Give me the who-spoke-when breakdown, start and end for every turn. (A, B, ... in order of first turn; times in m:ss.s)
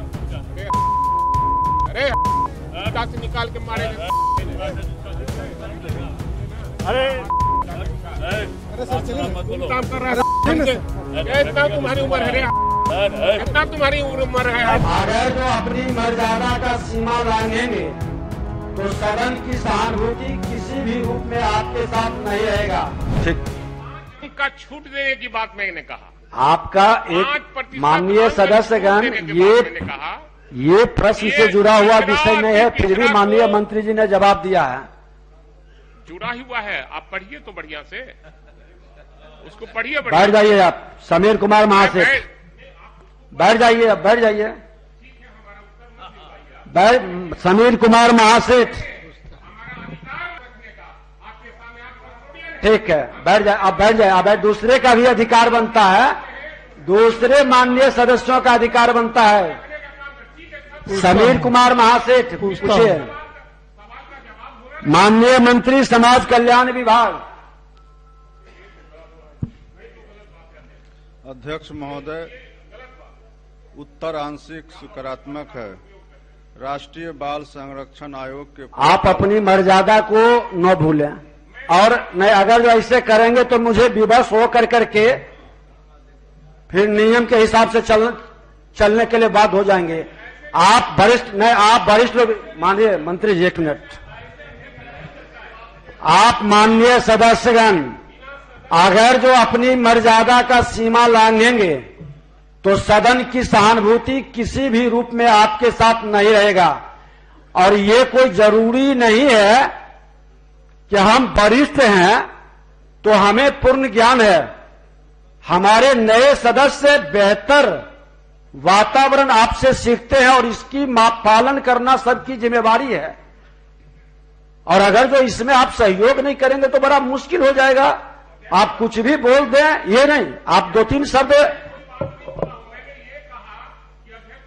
0:01.9-0:02.2 A
0:02.7-0:04.8 A
0:09.0-0:12.5 A
0:13.2-0:14.8 A
0:14.8-0:18.0 B
0:18.7-0:23.5 B
0:24.0-0:26.1 A
0:26.3-0:29.8 B
0:27.1-0:30.2 A
0:30.5-0:34.9 B
0:31.1-0:33.6 A
0:36.0-0:38.2 A
0:39.4-0:40.4 A
0:40.1-0:42.2 B
0:41.8-0:42.3 A
0:43.3-0:44.6 B
0:45.0-0:46.6 A
0:46.7-0:48.9 B
0:49.4-0:52.6 A
0:52.6-0:56.2 B
0:56.8-0:59.6 B
0:59.8-1:01.0 A
1:00.9-1:03.1 B
1:03.8-1:04.8 A
1:04.8-1:07.2 B
1:11.2-1:12.3 C
1:13.8-1:15.8 C
1:16.6-1:19.3 C
1:18.8-1:25.2 B
1:26.7-1:28.2 B
1:28.8-1:34.0 B
1:36.0-1:38.0 B
1:38.7-1:41.9 B
1:42.6-1:46.8 B
1:47.6-1:49.7 B
1:50.9-1:52.3 B
1:53.0-1:54.5 B
1:55.4-1:57.8 B
1:58.6-2:03.2 B
2:04.7-2:08.0 B
2:08.5-2:11.6 B
2:12.0-2:14.4 A